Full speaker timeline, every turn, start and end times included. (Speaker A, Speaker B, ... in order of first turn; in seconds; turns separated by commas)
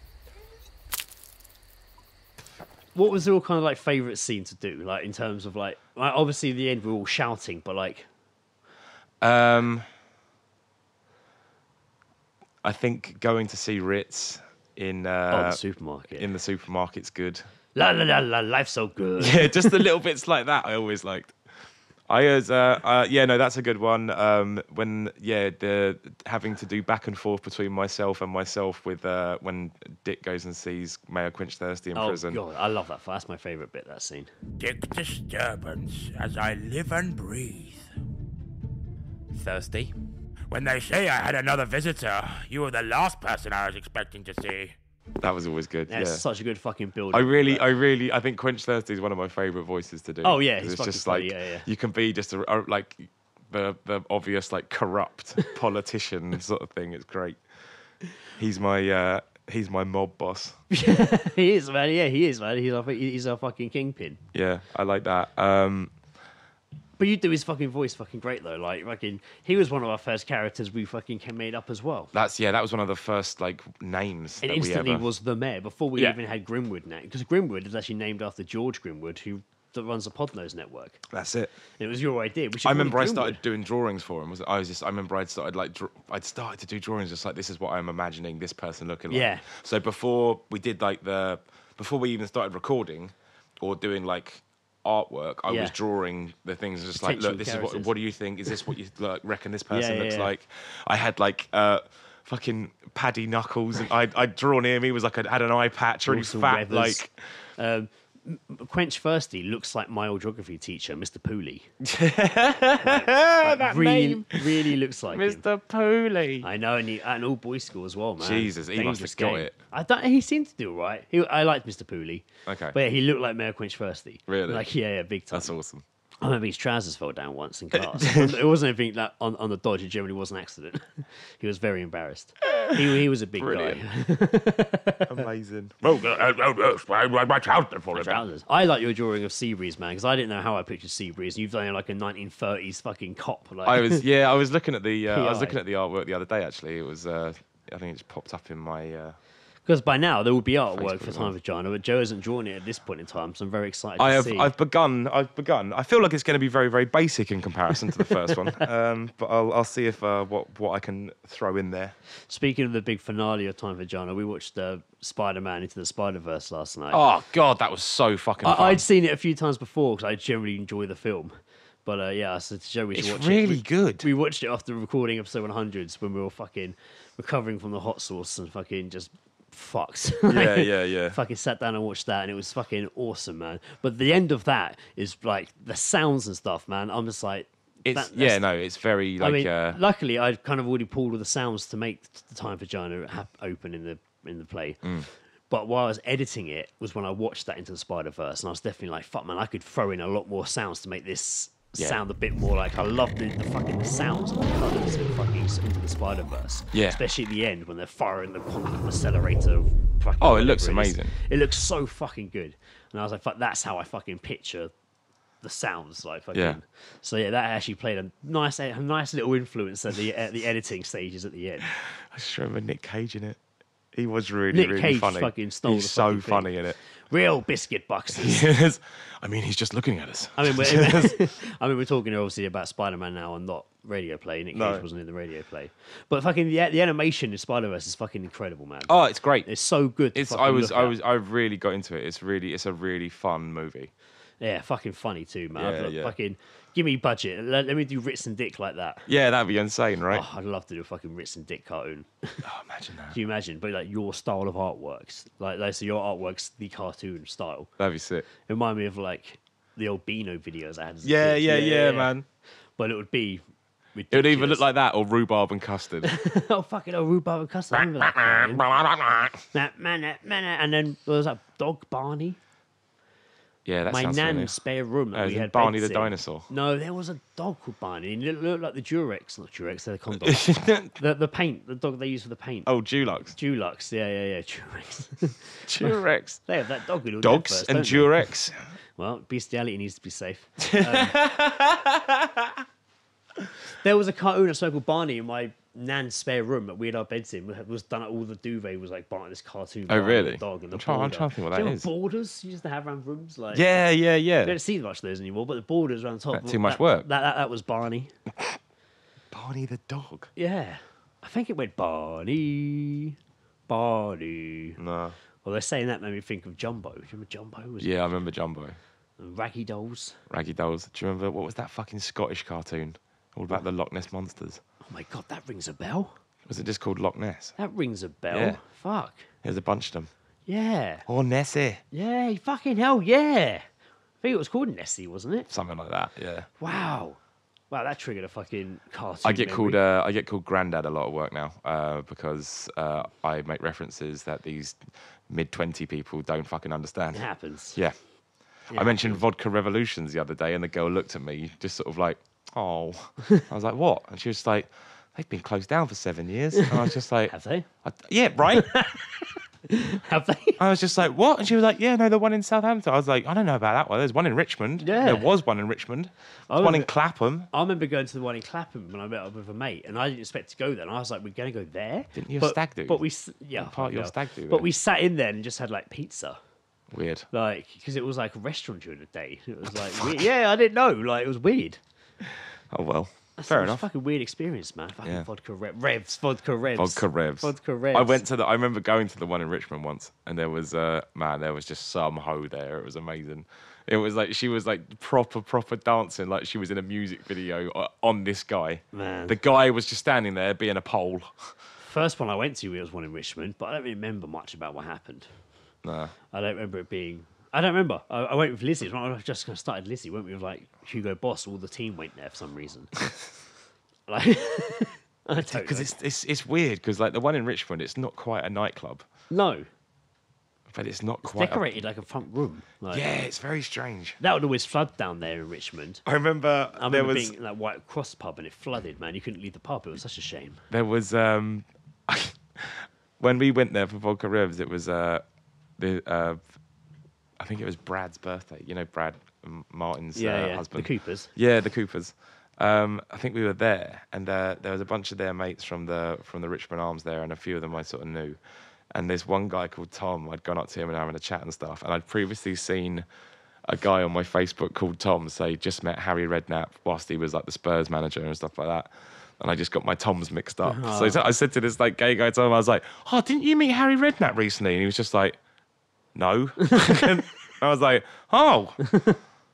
Speaker A: 2.9-8.1, Speaker B: 9.2-9.9, Speaker B: 12.6-15.6, Speaker A: 15.3-16.2, Speaker B: 16.1-17.4, Speaker A: 17.7-19.8, Speaker B: 19.2-21.3, Speaker B: 22.1-32.4, Speaker A: 31.9-34.3, Speaker C: 34.6-37.8, Speaker C: 39.3-39.9, Speaker C: 40.5-44.7, Speaker B: 45.2-46.2, Speaker A: 45.9-47.7, Speaker B: 47.1-57.4, Speaker A: 50.2-51.7, Speaker B: 58.4-60.6, Speaker A: 60.7-64.2, Speaker B: 64.3-65.9, Speaker A: 67.0-72.1, Speaker B: 72.1-75.1, Speaker A: 74.4-81.0, Speaker B: 81.1-81.5, Speaker A: 81.8-83.4, Speaker B: 82.6-107.1, Speaker A: 89.1-89.4, Speaker A: 95.5-95.7, Speaker A: 97.0-97.9, Speaker A: 99.7-100.3, Speaker A: 106.0-107.0, Speaker A: 107.6-111.7, Speaker B: 111.8-114.5, Speaker A: 112.8-115.4, Speaker B: 115.1-116.5, Speaker A: 116.4-125.5, Speaker B: 118.2-119.5, Speaker B: 122.5-122.8, Speaker B: 124.3-124.7, Speaker B: 125.3-125.8, Speaker A: 126.2-135.2, Speaker B: 128.0-128.3, Speaker B: 133.4-133.8, Speaker B: 135.1-138.2, Speaker A: 137.9-144.0, Speaker B: 143.6-149.2, Speaker A: 145.1-145.6, Speaker A: 149.7-154.5, Speaker B: 150.7-151.3, Speaker B: 154.0-161.9, Speaker A: 162.3-167.0, Speaker B: 166.9-168.8, Speaker A: 168.4-188.4, Speaker B: 172.9-174.1, Speaker B: 180.3-181.2, Speaker B: 187.8-189.8, Speaker A: 189.2-194.9, Speaker B: 194.8-195.1, Speaker A: 195.5-214.7, Speaker B: 206.7-207.0, Speaker B: 210.2-211.1, Speaker A: 215.4-221.7, Speaker B: 216.3-216.6, Speaker B: 221.7-223.4, Speaker B: 223.9-226.8, Speaker A: 224.5-228.5, Speaker B: 228.1-231.2, Speaker A: 230.3-240.9, Speaker B: 234.5-234.8, Speaker B: 238.8-239.5, Speaker B: 240.1-243.9, Speaker A: 244.4-249.1, Speaker B: 245.5-246.1, Speaker B: 249.1-250.2, Speaker A: 250.1-252.4, Speaker B: 252.4-253.2, Speaker A: 253.1-257.7, Speaker B: 257.8-258.2, Speaker A: 258.4-262.1, Speaker B: 261.0-262.2, Speaker A: 262.8-263.4, Speaker A: 263.9-264.7, Speaker B: 264.1-266.1, Speaker A: 266.0-268.6, Speaker B: 267.7-269.4, Speaker A: 269.5-272.4, Speaker B: 273.6-274.5, Speaker A: 273.9-282.7, Speaker B: 275.1-276.5, Speaker B: 280.2-280.9, Speaker B: 282.6-283.3, Speaker A: 283.3-288.2, Speaker B: 285.6-286.4, Speaker B: 287.2-288.6, Speaker A: 288.9-291.2, Speaker B: 290.6-292.6, Speaker A: 293.8-303.7, Speaker B: 299.9-301.9, Speaker B: 303.5-304.6, Speaker A: 304.4-308.1, Speaker B: 306.3-307.1, Speaker B: 309.3-310.3, Speaker A: 310.4-313.1, Speaker A: 313.7-314.8, Speaker B: 314.8-315.2, Speaker A: 315.4-317.9, Speaker B: 317.8-318.8, Speaker A: 319.2-320.2, Speaker B: 320.3-324.6, Speaker A: 324.8-326.1, Speaker B: 326.5-327.6, Speaker A: 327.6-329.3, Speaker B: 328.3-328.6, Speaker B: 329.4-330.1, Speaker A: 330.5-331.0, Speaker B: 331.1-331.8, Speaker A: 331.9-333.6, Speaker A: 334.2-335.5, Speaker B: 335.5-336.5, Speaker A: 336.6-337.2, Speaker A: 337.7-339.8, Speaker B: 339.2-348.0, Speaker A: 347.1-347.8, Speaker B: 348.5-358.7, Speaker A: 348.7-349.2, Speaker A: 357.3-357.7, Speaker A: 358.5-360.6, Speaker B: 360.6-367.5, Speaker A: 364.8-365.3, Speaker A: 366.5-366.9, Speaker A: 367.5-376.4, Speaker B: 372.1-373.0, Speaker B: 373.5-374.7, Speaker B: 376.9-377.3, Speaker A: 377.3-381.8, Speaker B: 382.7-383.9, Speaker A: 383.4-388.2, Speaker B: 386.8-401.6, Speaker A: 398.9-399.4, Speaker A: 401.8-405.3, Speaker B: 405.8-406.1, Speaker A: 406.3-413.0, Speaker A: 414.1-415.9, Speaker B: 415.4-419.1, Speaker A: 419.3-419.7, Speaker B: 420.7-421.7, Speaker A: 421.2-423.1, Speaker B: 422.9-424.2, Speaker A: 424.2-426.0, Speaker B: 426.1-427.3, Speaker A: 426.8-430.6, Speaker B: 430.7-435.2, Speaker B: 435.8-436.5, Speaker B: 437.4-448.4, Speaker A: 440.1-441.3, Speaker B: 448.9-453.1, Speaker B: 453.6-465.4, Speaker A: 460.6-461.2, Speaker B: 466.1-468.9, Speaker A: 468.9-469.1